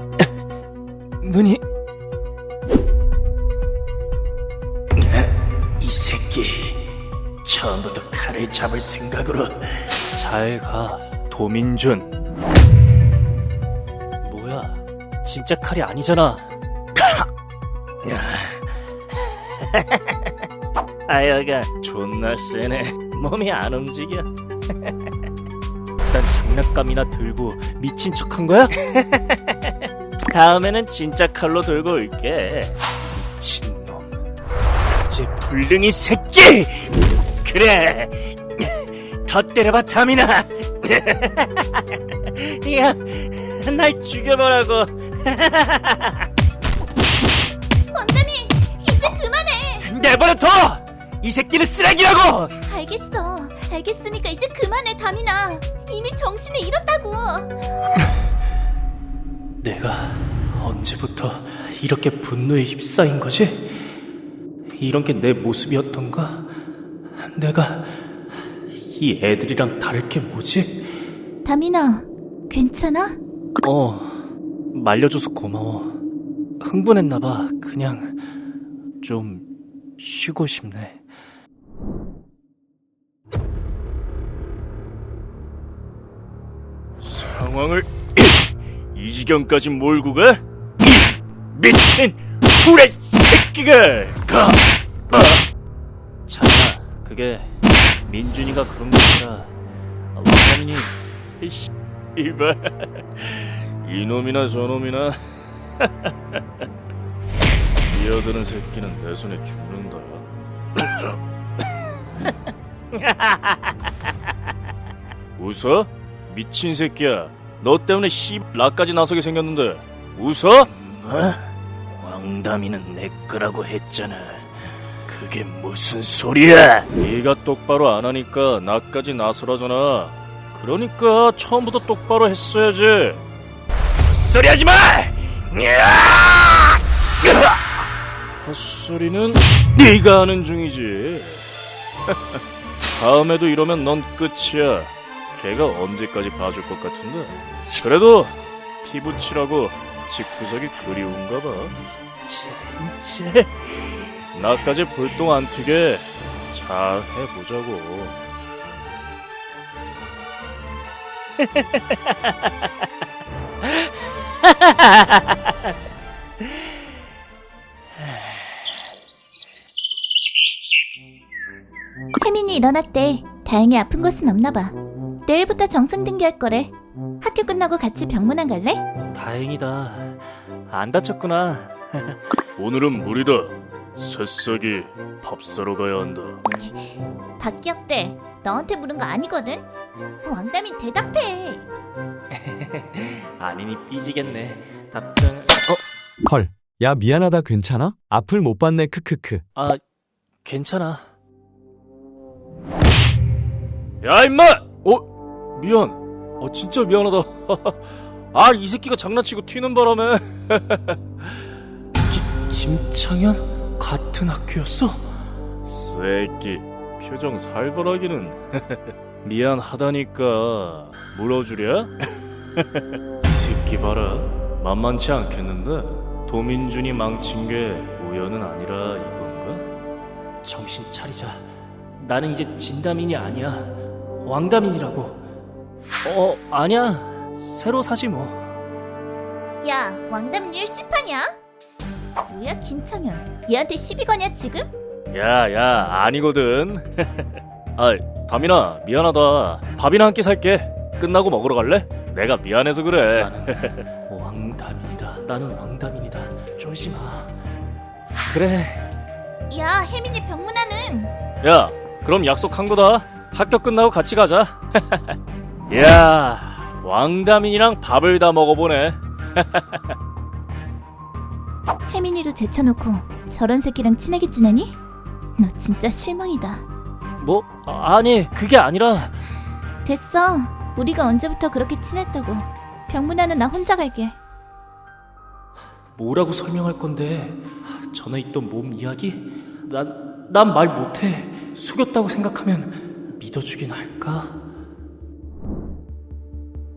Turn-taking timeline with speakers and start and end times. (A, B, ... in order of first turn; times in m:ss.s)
0:01.2-0:01.6 A
0:05.0-0:06.9 A
0:07.4-0:12.1 A
0:14.2-0:17.3 A
0:18.0-0:18.7 A
0:19.4-0:20.3 A
0:21.1-0:24.3 A
0:26.1-0:29.7 A
0:30.3-0:34.1 A
0:35.0-0:46.2 A
0:47.9-0:49.9 B
0:49.8-0:52.5 A
0:52.6-0:57.5 B
0:59.6-1:03.9 A
1:04.7-1:06.5 A
1:07.2-1:08.0 A
1:08.8-1:10.9 A
1:11.4-1:13.2 B
1:13.6-1:16.0 A
1:16.6-1:18.2 A
1:19.0-1:19.4 A
1:20.0-1:21.0 A
1:27.0-1:28.3 A
1:28.9-1:35.4 A
1:36.3-1:37.5 A
1:38.1-1:39.5 A
1:40.1-1:45.2 A
1:45.8-1:46.4 A
1:47.8-1:51.1 A
1:52.9-1:53.9 A
1:55.4-2:13.2 A
2:14.1-2:17.5 A
2:18.4-2:21.4 A
2:22.1-2:22.4 A
2:23.0-2:33.7 A
2:34.3-2:38.2 A
2:41.5-2:42.3 A
2:44.4-2:45.5 A
2:52.2-2:58.8 B
2:59.1-3:06.4 A
3:06.6-3:09.7 B
3:10.2-3:11.6 B
3:12.3-3:15.8 A
3:16.2-3:19.4 C
3:19.6-3:19.8 A
3:20.4-3:21.0 A
3:24.0-3:27.8 A
3:28.3-3:31.2 A
3:32.1-3:35.1 A
3:35.6-3:49.7 A
3:50.4-3:51.4 A
3:52.0-3:55.2 A
3:56.0-3:58.5 A
3:59.6-4:01.3 B
4:02.2-4:04.7 B
4:05.1-4:17.3 A
4:18.3-4:18.8 A
4:19.5-4:21.1 B
4:21.4-4:25.2 A
4:25.7-4:29.9 A
4:31.9-4:34.8 B
4:35.4-4:36.6 B
4:37.2-4:39.2 A
4:39.8-4:44.1 B
4:46.0-4:54.4 A